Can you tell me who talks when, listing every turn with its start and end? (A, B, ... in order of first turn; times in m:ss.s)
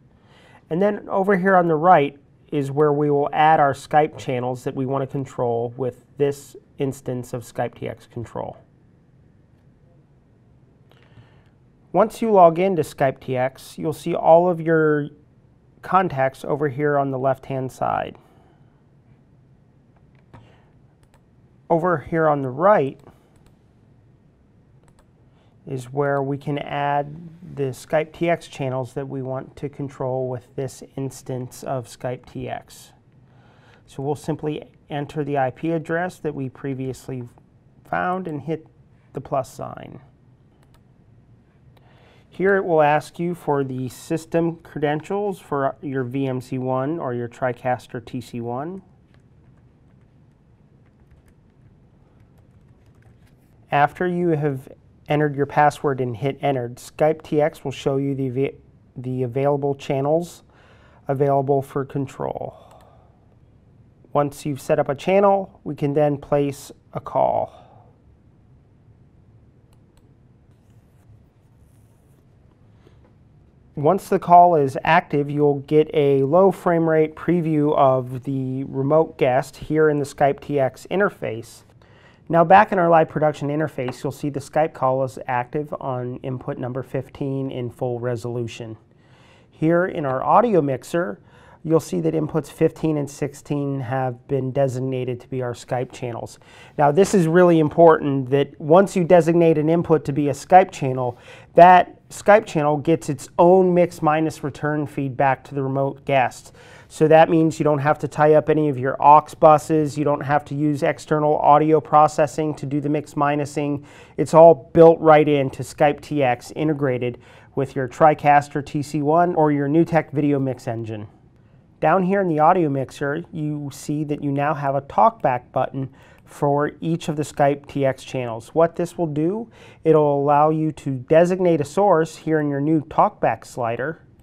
0:00.7-0:08.6 A
0:11.9-0:15.1 A
0:15.8-0:18.2 A
0:21.7-0:23.0 A
0:25.6-0:32.9 A
0:33.9-0:37.3 A
0:37.8-0:40.0 A
0:42.3-0:48.8 A
0:53.7-1:00.4 A
1:01.1-1:02.7 A
1:04.1-1:07.6 A
1:13.8-1:21.6 A
1:22.3-1:28.8 A
1:29.5-2:01.1 A
2:01.8-2:14.0 A